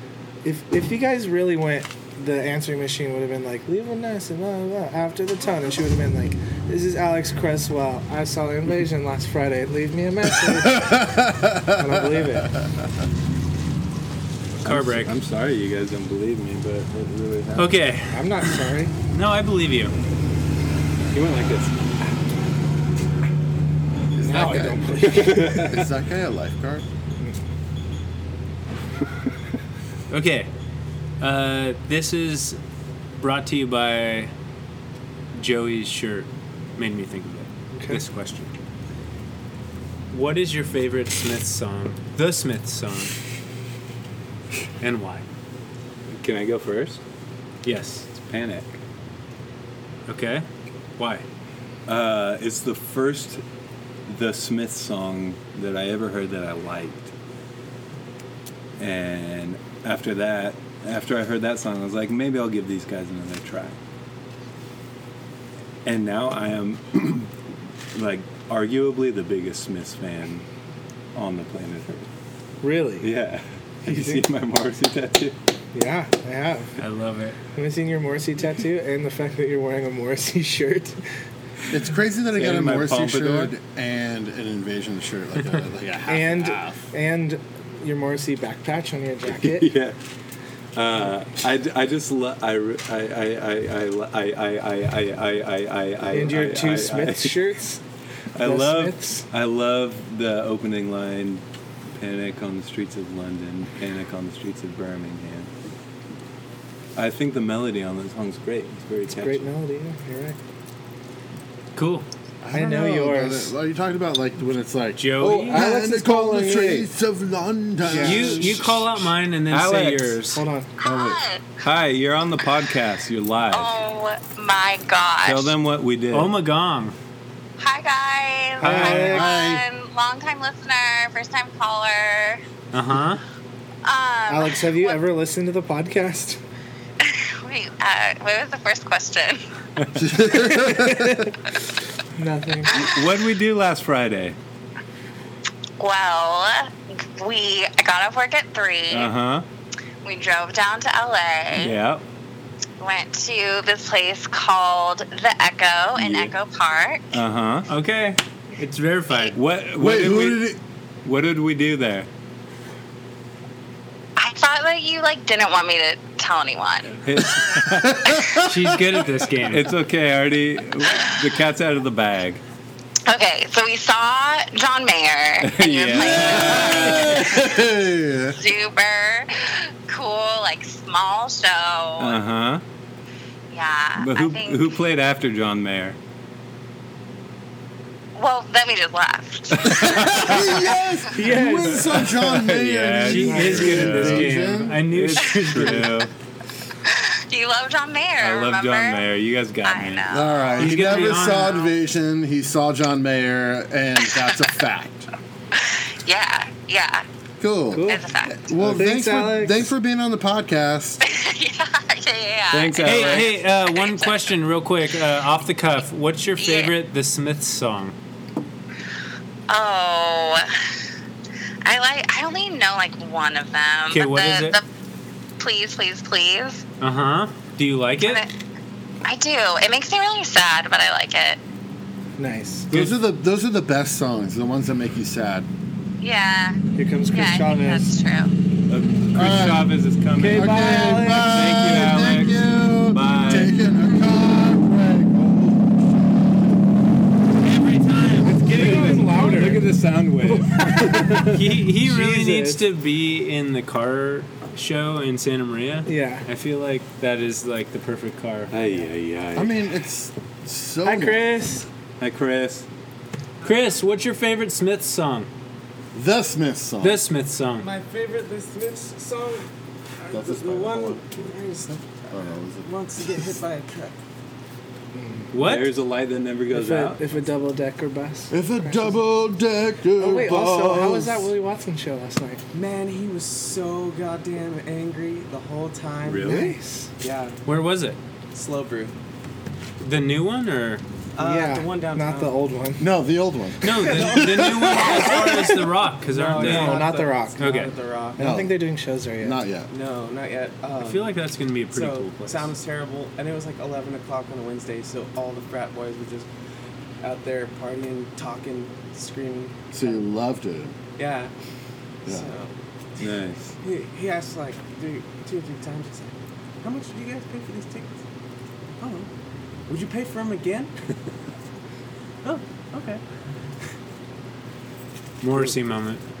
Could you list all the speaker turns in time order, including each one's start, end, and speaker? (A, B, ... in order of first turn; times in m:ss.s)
0:00.4-0:12.6 A
0:10.6-0:12.8 B
0:14.6-0:15.1 C
0:14.6-0:17.7 D
0:17.6-0:19.9 C
0:18.1-0:18.9 A
0:21.1-0:22.1 D
0:24.1-0:26.8 B
0:24.3-0:25.8 A
0:25.0-0:25.8 D
0:30.1-0:30.5 C
0:31.2-0:32.6 C
0:33.2-0:34.3 C
0:35.3-0:38.5 C
0:37.7-0:38.0 A
0:40.1-0:43.1 C
0:44.8-0:45.2 C
0:46.1-0:47.0 D
0:47.6-0:48.1 C
0:48.1-0:48.8 D
0:50.1-0:50.4 C
0:51.0-0:51.2 C
0:51.8-0:53.4 D
0:54.1-0:57.1 D
0:58.8-1:03.8 D
1:05.8-1:07.3 D
1:07.9-1:10.4 D
1:11.1-1:12.1 D
1:12.6-1:13.1 A
1:13.0-1:15.4 D
1:13.8-1:14.2 A
1:15.7-1:16.8 A
1:16.8-1:17.4 C
1:17.5-1:21.0 A
1:21.7-1:26.8 B
1:22.3-1:23.5 D
1:26.1-1:29.7 A
1:29.2-1:30.0 D
1:30.7-1:37.4 D
1:36.1-1:37.8 A
1:38.3-1:45.5 D
1:38.4-1:39.3 A
1:46.9-1:49.5 D
1:49.1-1:50.4 A
1:51.7-1:52.1 C
1:52.4-1:59.1 B
1:52.5-1:53.5 A
1:55.0-1:55.6 C
1:55.2-1:55.6 D
1:55.4-1:56.9 A
1:57.8-1:58.6 A
1:58.0-2:00.4 C
1:59.5-2:00.2 D
2:00.3-2:00.7 A
2:00.8-2:01.6 E
2:00.8-2:01.2 B
2:01.6-2:03.7 D
2:03.5-2:05.5 E
2:05.2-2:06.3 D
2:06.1-2:07.0 C
2:07.6-2:12.4 E
2:08.6-2:09.3 A
2:08.6-2:09.1 C
2:08.8-2:09.6 B
2:12.7-2:13.2 C
2:13.8-2:15.0 E
2:14.3-2:16.4 A
2:17.0-2:19.4 E
2:19.9-2:21.3 B
2:20.2-2:21.3 A
2:22.1-2:22.8 A
2:22.7-2:24.4 D
2:22.7-2:23.0 E
2:25.8-2:29.1 E
2:28.9-2:29.4 D
2:30.0-2:31.8 E
2:31.5-2:32.0 D
2:32.8-2:37.0 E
2:35.9-2:36.3 D
2:37.1-2:37.7 D
2:37.7-2:39.4 C
2:39.3-2:40.5 D
2:39.8-2:40.6 B
2:41.0-2:42.1 D
2:44.2-2:47.0 E
2:47.0-2:48.1 D
2:47.6-2:48.8 B
2:48.4-2:49.7 C
2:49.4-2:52.4 D
2:53.0-2:57.7 E
2:55.4-2:57.3 D
2:56.3-2:58.4 B
2:58.3-3:02.2 E
3:02.0-3:02.6 D
3:03.5-3:04.7 E
3:04.0-3:06.0 D
3:08.1-3:10.7 E
3:09.6-3:10.4 D
3:09.8-3:14.8 B
3:11.1-3:12.1 A
3:12.0-3:16.1 D
3:12.5-3:16.1 C
3:13.1-3:14.2 A
3:16.9-3:19.0 E
3:18.2-3:20.0 D
3:19.6-3:21.7 E
3:20.1-3:25.1 B
3:20.6-3:21.6 C
3:25.5-3:27.0 E
3:27.4-3:31.0 B
3:27.7-3:28.1 A
3:27.9-3:28.4 E
3:28.6-3:29.7 A
3:31.0-3:34.1 E
3:32.5-3:33.4 D
3:32.8-3:38.0 C
3:36.4-3:36.8 E
3:39.5-3:40.5 E
3:41.6-3:44.6 E
3:43.9-3:44.6 C
3:45.4-3:46.6 E
3:46.8-3:48.2 C
3:48.0-3:48.3 E
3:49.0-3:51.4 E
3:52.2-3:52.7 A
3:52.7-3:55.5 B
3:56.0-3:56.6 E
3:56.8-3:58.0 A
3:57.1-3:58.3 E
3:58.7-4:03.5 D
3:59.1-4:06.0 B
4:00.2-4:01.4 A
4:07.4-4:09.2 C
4:08.2-4:12.7 A
4:08.5-4:11.4 D
4:11.2-4:18.6 C
4:15.8-4:16.2 A
4:18.5-4:19.6 D
4:19.3-4:21.3 B
4:20.8-4:21.6 A
4:22.0-4:22.6 D
4:23.4-4:25.3 C
4:25.9-4:27.0 B
4:26.8-4:27.7 C
4:27.6-4:29.5 F
4:30.0-4:33.9 F
4:30.1-4:31.0 B
4:32.1-4:33.3 B
4:34.9-4:35.3 A
4:35.3-4:35.7 C
4:35.3-4:37.2 D
4:36.5-4:39.0 A
4:38.3-4:41.3 B
4:40.0-4:42.4 A
4:42.5-4:47.4 F
4:46.0-4:46.5 D
4:46.2-4:46.9 A
4:47.4-4:48.0 C
4:48.3-4:48.9 F
4:49.8-4:50.8 C
4:51.2-4:52.4 F
4:51.2-4:52.9 A
4:52.8-4:55.5 B
4:53.6-4:56.8 C
4:53.8-4:58.3 F
4:55.2-4:55.7 A
4:56.3-4:57.4 A
4:57.4-4:57.7 C
4:58.2-4:59.4 A
4:58.2-4:58.6 B
4:59.2-4:59.7 B
4:59.7-5:06.3 F
5:00.8-5:02.5 C
5:07.0-5:10.0 F
5:09.7-5:10.7 B
5:11.0-5:11.3 F
5:12.0-5:12.3 B
5:12.0-5:18.0 F
5:13.0-5:13.5 D
5:18.8-5:19.1 F
5:19.7-5:20.7 F
5:22.2-5:23.0 F
5:25.2-5:26.0 C